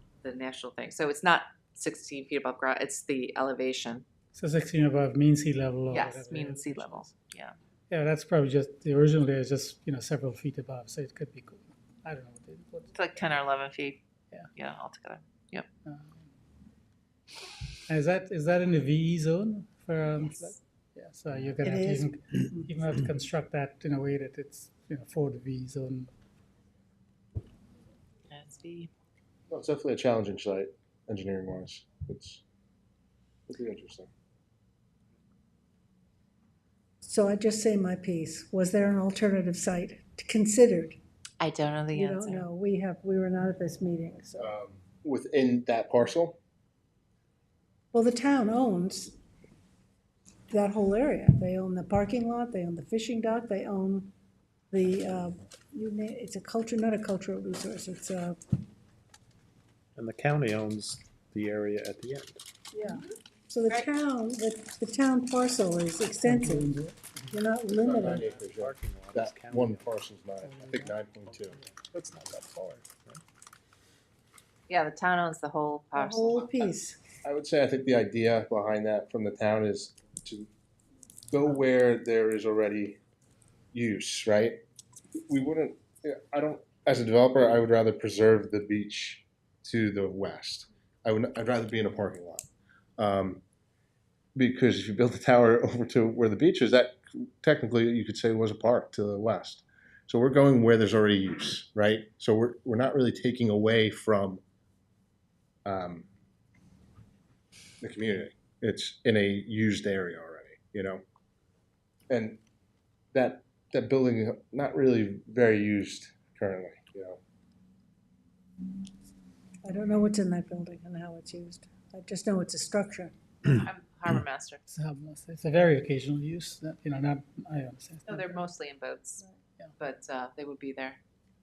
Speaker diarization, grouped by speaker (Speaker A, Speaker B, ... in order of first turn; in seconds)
Speaker A: 0.2-4.0, 5.9-7.5, 12.9-14.0, 14.5-15.7, 28.3-28.9, 41.4-42.5, 74.7-76.7, 123.5-124.6, 128.1-129.2, 129.8-131.0
Speaker B: 4.3-7.1, 7.9-12.9, 15.8-16.2, 17.9-26.1, 66.2-67.0, 70.4-70.9, 124.7-128.3
Speaker C: 21.6-22.7, 37.0-41.0, 41.9-44.5, 47.9-49.1, 50.5-54.1, 54.7-58.4, 62.7-66.8, 67.3-68.3, 75.9-77.0, 119.6-123.1
Speaker D: 29.5-32.4, 33.5-34.1, 44.4-46.4, 67.8-71.6, 77.2-80.5, 81.3-83.0, 83.7-84.6, 85.3-92.5, 93.0-93.4, 94.3-104.4, 105.7-106.0, 107.8-111.0, 112.1-112.4, 113.1-117.2
Speaker E: 59.9-62.4, 67.8-70.0, 71.3-73.2